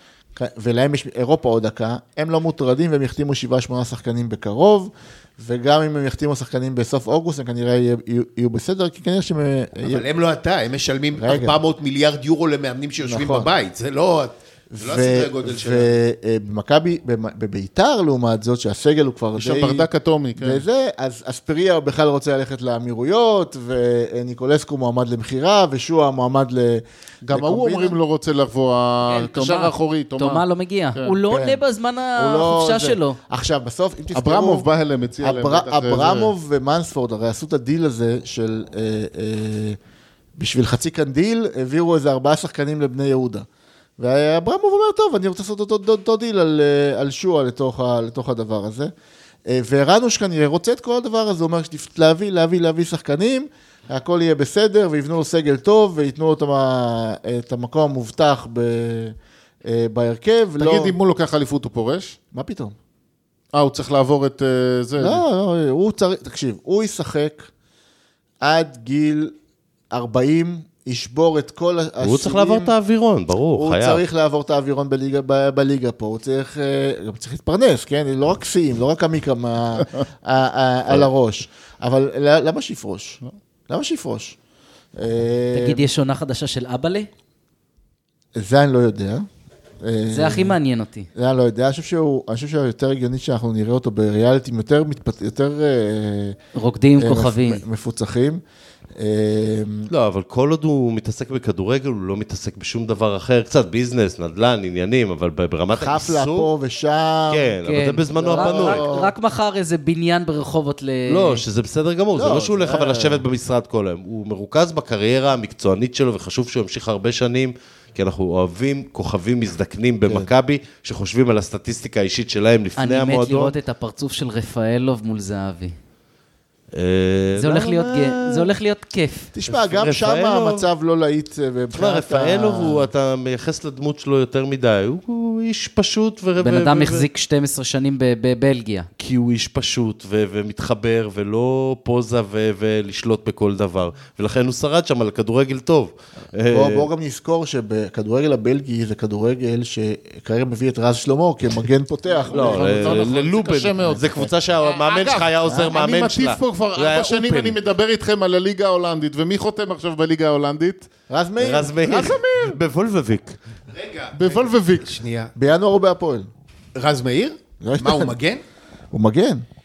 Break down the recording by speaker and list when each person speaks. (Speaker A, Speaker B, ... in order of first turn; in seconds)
Speaker A: 0.3-10.1, 11.2-11.6, 13.0-13.5, 14.7-28.0, 31.3-31.6, 32.1-34.7, 35.2-39.8, 40.4-43.5, 44.0-48.9, 49.5-61.0, 62.3-62.8, 65.0-67.5, 68.4-69.3, 69.9-72.7, 73.6-84.4, 85.0-85.9, 88.3-89.3, 89.8-90.6, 91.2-96.4, 97.0-98.4, 99.0-99.9, 105.7-107.6, 108.2-109.0, 112.2-113.2, 129.3-132.9, 146.5-153.1, 155.5-155.8, 161.1-161.8, 165.4-166.3, 167.6-168.2, 168.9-169.4
Speaker B: 9.8-16.0, 108.4-109.0, 163.7-165.3, 166.8-168.4
Speaker C: 19.4-20.6, 27.2-31.2, 34.1-36.3, 60.6-62.2, 63.5-65.2, 152.3-160.9, 161.8-162.6, 164.2-164.9
Speaker D: 29.1-33.2, 85.5-87.1, 90.1-91.1, 96.5-97.6, 107.7-111.4, 122.8-125.8, 127.4-129.3, 136.4-138.9
Speaker E: 72.0-74.0, 99.9-106.5, 107.3-108.9, 111.1-123.6, 126.7-128.5, 129.5-130.7, 131.7-137.1, 139.0-146.9, 152.3-157.6, 161.4-163.4